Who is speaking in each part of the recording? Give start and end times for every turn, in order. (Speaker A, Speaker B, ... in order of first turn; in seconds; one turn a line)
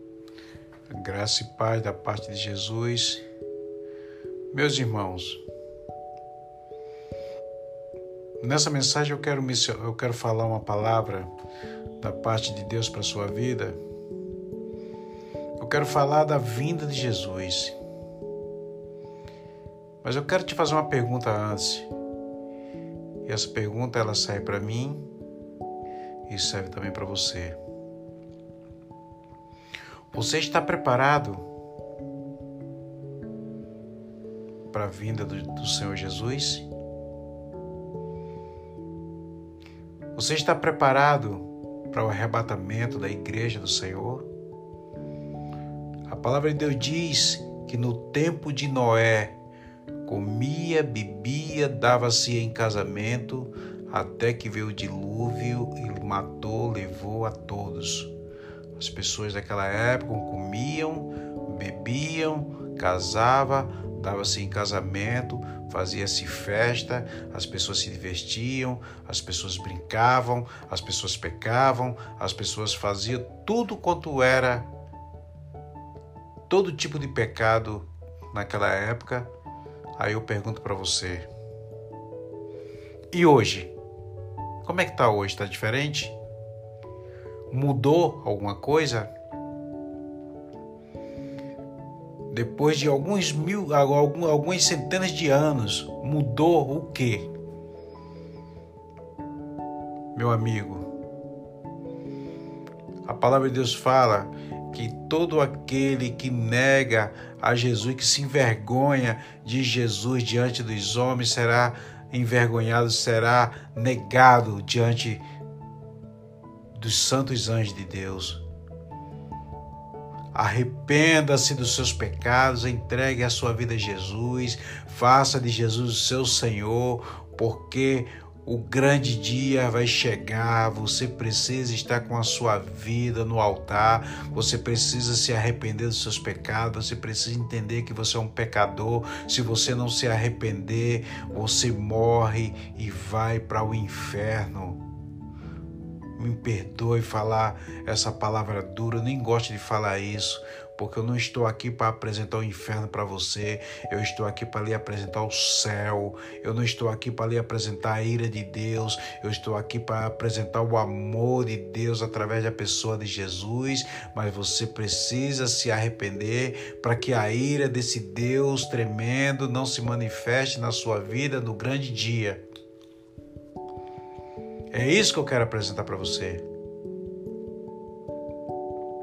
Speaker A: 0.9-3.2
Speaker A: 4.5-5.4
Speaker A: 8.4-11.3
Speaker A: 12.0-13.8
Speaker A: 15.6-17.8
Speaker A: 20.0-21.9
Speaker A: 23.2-25.1
Speaker A: 26.3-27.6
Speaker A: 30.1-31.5
Speaker A: 34.7-36.7
Speaker A: 40.1-44.3
Speaker A: 46.1-49.3
Speaker A: 50.0-58.1
Speaker A: 58.8-74.7
Speaker A: 76.5-79.3
Speaker A: 80.0-81.3
Speaker A: 83.1-83.7
Speaker A: 84.6-86.2
Speaker A: 87.5-89.1
Speaker A: 92.3-97.3
Speaker A: 100.2-100.9
Speaker A: 103.1-115.2
Speaker A: 116.7-118.4
Speaker A: 120.3-144.8
Speaker A: 146.2-172.4
Speaker A: 174.7-176.4